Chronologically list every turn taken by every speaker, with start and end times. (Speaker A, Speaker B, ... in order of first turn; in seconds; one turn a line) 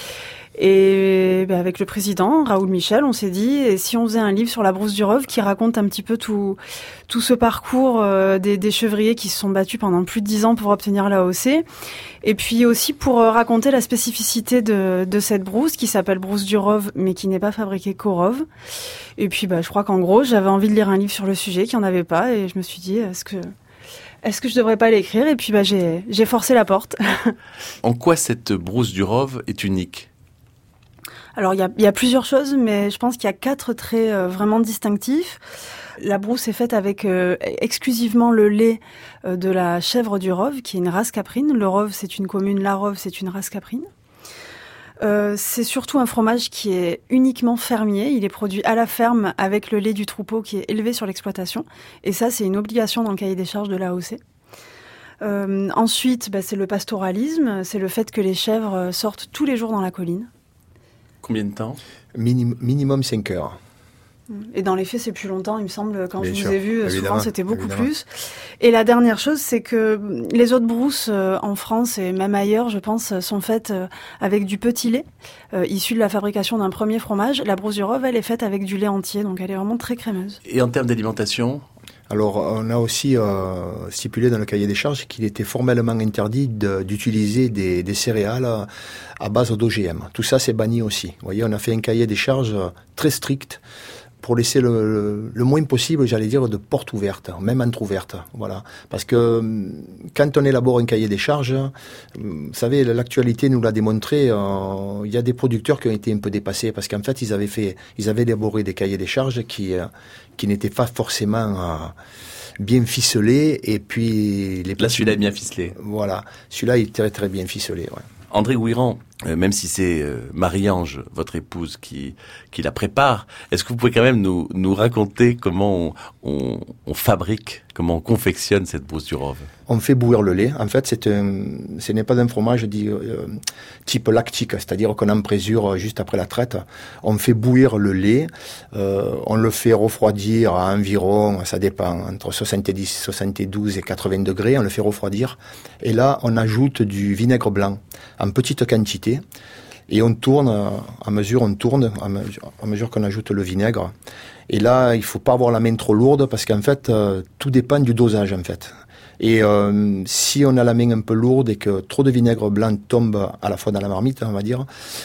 Speaker A: 0.6-11.6
Speaker A: 12.2-18.4
Speaker A: 19.2-23.5
Speaker A: 24.2-27.4
Speaker B: 27.8-30.1
Speaker A: 31.4-35.4
Speaker A: 36.0-43.9
Speaker A: 45.0-54.2
Speaker A: 55.2-60.3
Speaker B: 61.2-61.8
Speaker C: 62.1-63.6
Speaker A: 64.3-68.1
Speaker C: 66.2-67.9
Speaker A: 68.6-80.4
Speaker B: 80.5-81.6
Speaker C: 82.1-88.7
Speaker C: 89.2-93.6
Speaker C: 94.2-112.0
Speaker C: 112.6-118.0
Speaker B: 114.8-115.8
Speaker B: 118.3-129.5
Speaker C: 129.7-149.2
Speaker C: 149.9-153.9
Speaker C: 154.5-164.7